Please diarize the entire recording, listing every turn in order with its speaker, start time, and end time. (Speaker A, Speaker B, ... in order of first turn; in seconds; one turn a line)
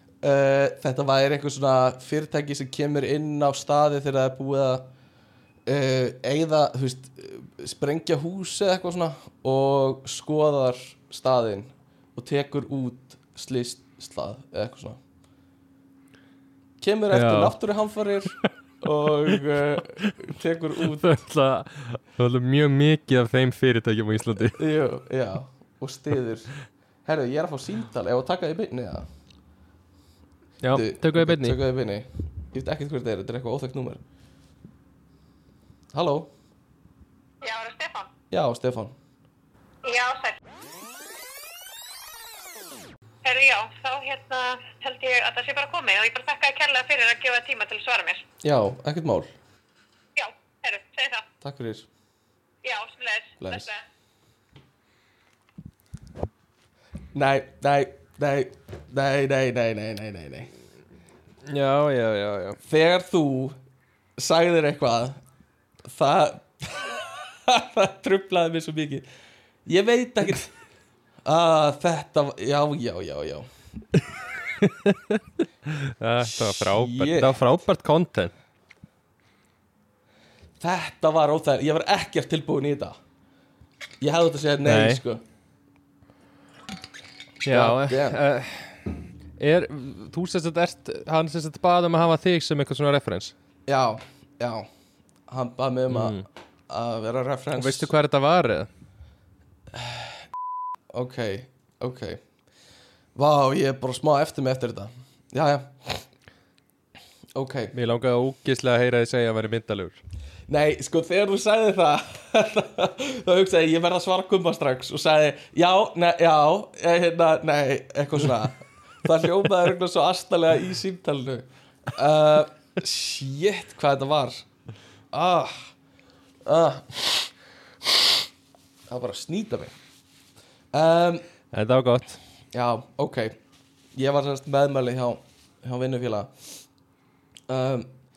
Speaker A: 0.2-4.9
Speaker A: 5.7-15.0
Speaker A: 16.8-21.1
Speaker B: 17.1-17.6
Speaker B: 19.3-20.1
Speaker B: 20.8-24.6
Speaker A: 24.6-29.1
Speaker B: 30.6-31.6
Speaker A: 30.7-34.0
Speaker A: 35.9-36.3
Speaker C: 37.4-38.1
Speaker A: 38.3-38.9
Speaker C: 39.8-40.4
Speaker C: 43.2-48.2
Speaker A: 48.4-49.3
Speaker C: 50.2-51.2
Speaker A: 51.4-51.9
Speaker C: 52.6-53.8
Speaker A: 53.4-53.7
Speaker A: 57.1-60.5
Speaker B: 61.4-62.6
Speaker A: 62.6-63.5
Speaker A: 64.2-65.2
Speaker A: 65.8-69.0
Speaker A: 69.7-70.5
Speaker A: 71.2-73.5
Speaker B: 74.6-78.3
Speaker A: 76.2-77.4
Speaker A: 80.6-83.0
Speaker A: 84.0-85.2
Speaker B: 84.6-85.0
Speaker B: 87.4-93.3
Speaker A: 87.5-88.2
Speaker A: 93.7-94.7
Speaker A: 95.3-97.9
Speaker B: 95.9-96.2
Speaker B: 97.6-98.7
Speaker A: 99.7-100.2
Speaker A: 100.9-102.2
Speaker A: 103.2-106.0
Speaker A: 107.3-107.7
Speaker B: 107.7-110.0
Speaker A: 110.5-124.5
Speaker A: 125.1-125.7
Speaker A: 126.5-127.3
Speaker A: 128.9-129.7
Speaker A: 130.7-131.2
Speaker B: 131.5-132.2
Speaker A: 132.5-133.3
Speaker A: 133.9-136.3
Speaker A: 137.5-137.9